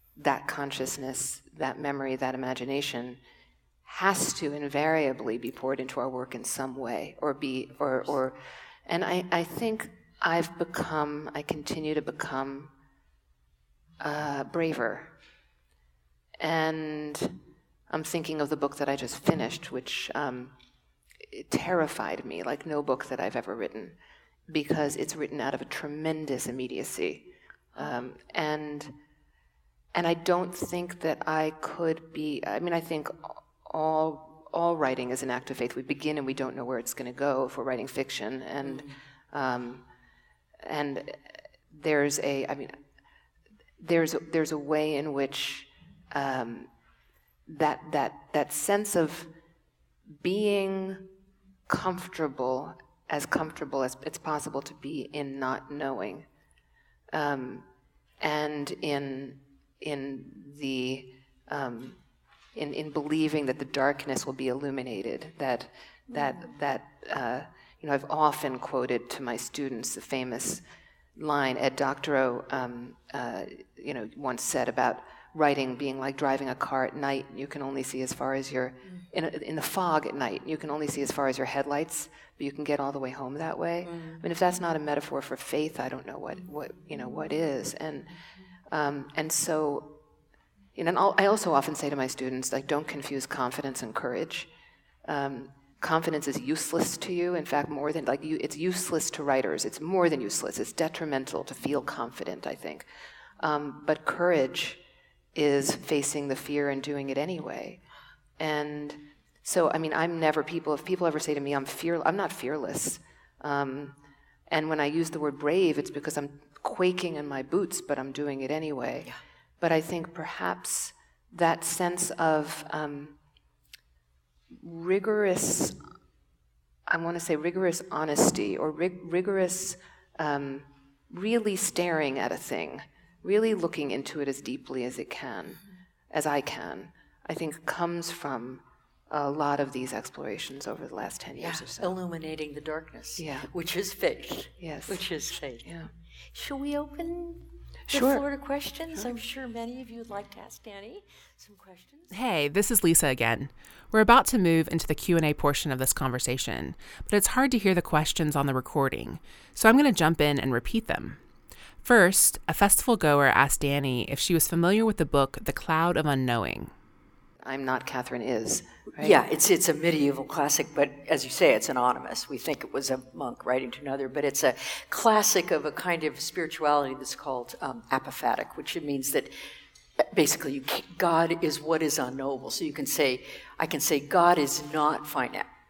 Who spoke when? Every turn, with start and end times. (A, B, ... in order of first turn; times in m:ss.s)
0:00.2-0:03.2 A
0:03.8-0:12.7 A
0:14.0-0:15.1 A
0:16.4-0:20.5 A
0:21.2-0:24.0 A
0:24.5-0:28.9 A
0:29.9-0:39.8 A
0:38.6-0:39.0 B
0:40.6-0:42.8 A
0:43.8-0:46.7 A
0:47.5-0:49.3 A
0:50.2-0:51.1 A
0:51.7-0:56.3 A
0:57.1-0:57.7 A
0:58.2-1:02.0 A
1:02.6-1:10.6 A
1:11.2-1:28.1 A
1:23.8-1:24.2 B
1:28.7-1:30.0 A
1:30.8-1:34.5 A
1:35.0-1:42.8 A
1:43.4-1:44.8 A
1:45.3-1:47.8 A
1:48.4-1:54.0 A
1:54.5-2:03.2 A
2:04.5-2:05.8 A
2:06.9-2:21.9 A
2:21.4-2:25.7 B
2:23.2-2:23.5 A
2:24.6-2:25.1 A
2:25.6-2:25.9 A
2:26.3-2:32.1 B
2:27.9-2:28.2 A
2:32.1-2:41.2 C
2:41.8-2:46.7 C
2:47.4-2:49.2 A
2:49.0-2:59.3 B
3:00.0-3:05.5 B